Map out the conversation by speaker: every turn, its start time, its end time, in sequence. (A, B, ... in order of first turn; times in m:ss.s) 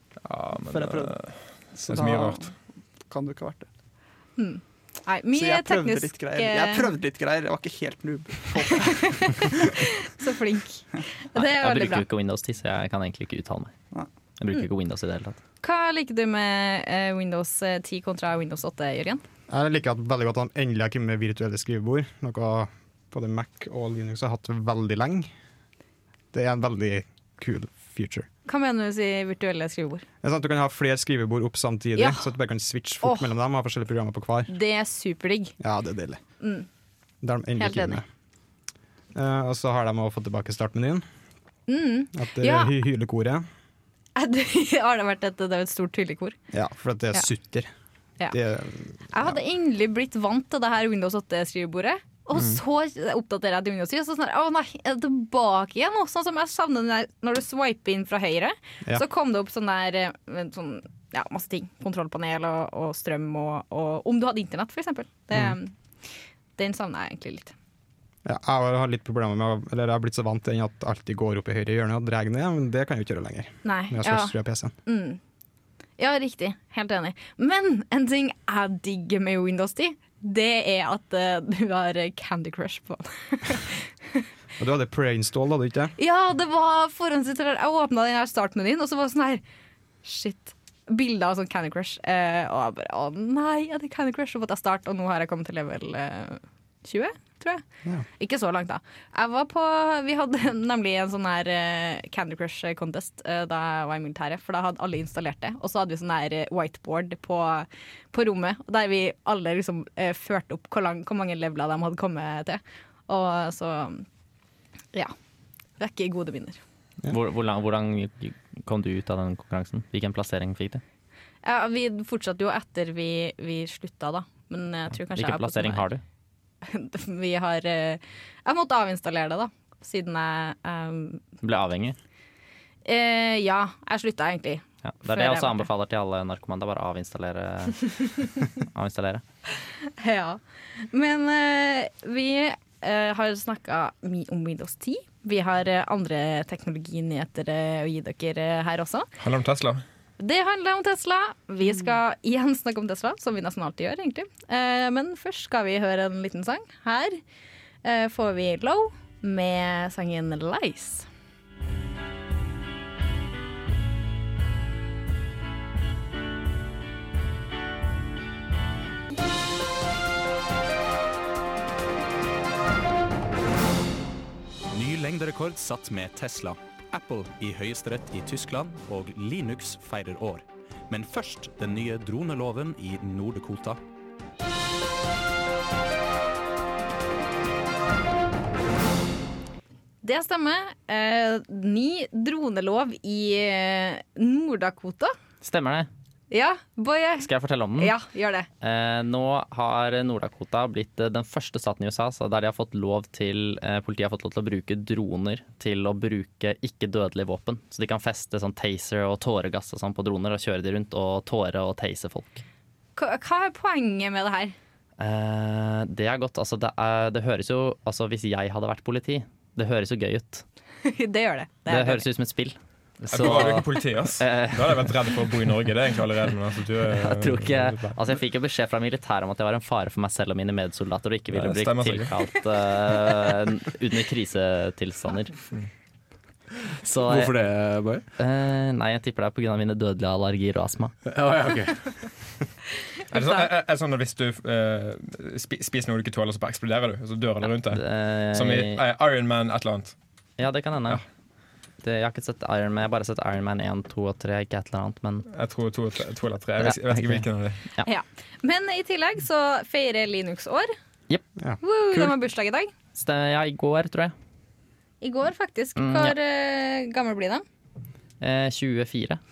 0:00.2-0:02.5 A
0:00.7-0:01.1 B
0:01.8-0:02.5 B
0:03.1-0:03.7 B
0:04.4-0:06.9 C
0:05.3-0:09.9 B
0:08.7-0:12.0 C
0:11.3-0:13.7 D
0:14.4-0:15.4 D
0:15.6-0:19.2 C
0:19.5-0:25.3 E
0:26.3-0:28.3 E
0:28.4-0:30.0 C
0:30.2-0:34.5 E
0:32.0-0:32.3 C
0:33.0-0:33.3 C
0:34.5-0:35.5 C
0:35.6-0:36.2 E
0:36.4-0:36.7 C
0:37.2-0:38.0 E
0:37.6-0:38.0 C
0:39.1-0:41.0 E
0:41.7-0:42.7 C
0:42.1-0:43.4 E
0:44.2-0:46.4 C
0:46.5-0:47.7 E
0:48.3-0:49.4 E
0:49.1-1:05.7 C
1:06.6-1:07.5 C
1:08.2-1:14.7 E
1:13.6-1:15.2 C
1:16.0-1:24.2 C
1:24.6-1:25.9 E
1:26.0-1:29.4 C
1:30.0-1:37.6 C
1:38.2-1:54.0 C
1:55.8-1:56.6 C
1:57.1-2:00.8 D
2:01.4-2:05.9 C
2:05.1-2:06.0 D
2:06.6-2:11.2 C
2:11.4-2:12.0 D
2:12.8-2:15.7 C
2:14.8-2:19.2 D
2:19.6-2:20.4 C
2:20.9-2:29.1 C
2:29.2-2:29.8 A
2:30.2-2:37.2 C
2:37.8-2:41.1 C
2:54.7-3:03.8 F
3:10.0-3:15.1 C
3:15.4-3:15.9 D
3:16.3-3:18.5 C
3:17.2-3:17.9 D
3:18.6-3:32.4 D
3:33.0-3:34.5 C
3:35.0-3:40.4 D
3:40.8-3:42.0 C
3:41.7-3:45.3 D
3:43.1-3:48.0 A
3:46.9-3:55.4 D
3:51.3-3:52.1 A
3:56.8-3:57.3 D
3:57.0-3:58.0 F
3:58.2-4:00.9 D
4:01.0-4:02.1 F
4:03.1-4:09.9 A
4:07.4-4:08.8 D
4:10.4-4:11.0 D
4:11.8-4:15.2 D
4:15.3-4:17.6 A
4:16.6-4:17.2 D
4:17.8-4:20.7 C
4:21.6-4:22.7 C
4:22.9-4:24.1 D
4:25.0-4:27.4 C
4:25.8-4:26.1 D
4:28.2-4:29.2 D